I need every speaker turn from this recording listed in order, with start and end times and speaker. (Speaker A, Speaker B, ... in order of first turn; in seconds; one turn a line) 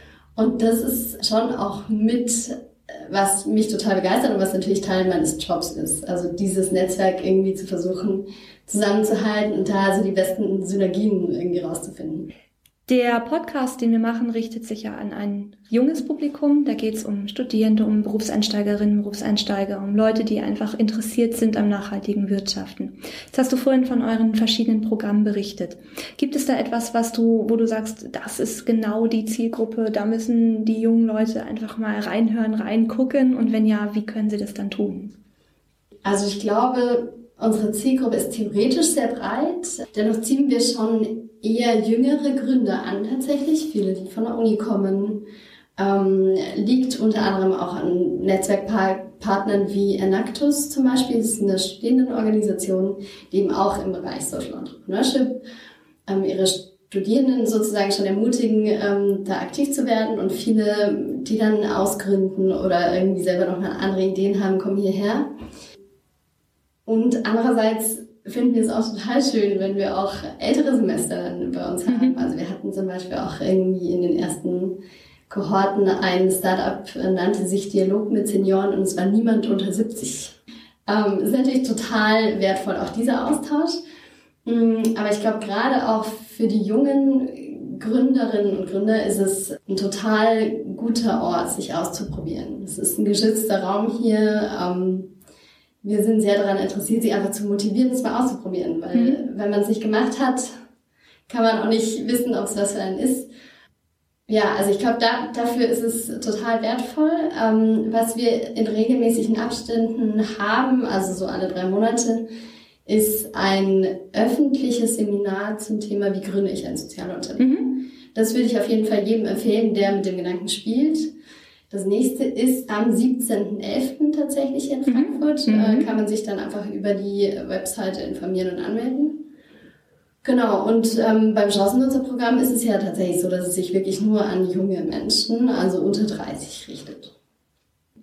Speaker A: 0.4-12.3
Speaker B: 12.9-35.2
Speaker A: 36.0-45.2
Speaker A: 45.8-55.4
Speaker A: 56.1-65.3
Speaker A: 66.9-83.8
Speaker B: 71.9-72.2
Speaker A: 84.5-95.1
Speaker A: 95.8-100.6
Speaker B: 98.9-99.2
Speaker A: 101.3-103.3
Speaker A: 104.3-112.3
Speaker A: 112.9-121.1
Speaker B: 117.4-117.7
Speaker A: 121.7-129.3
Speaker B: 124.9-125.9
Speaker A: 130.2-137.1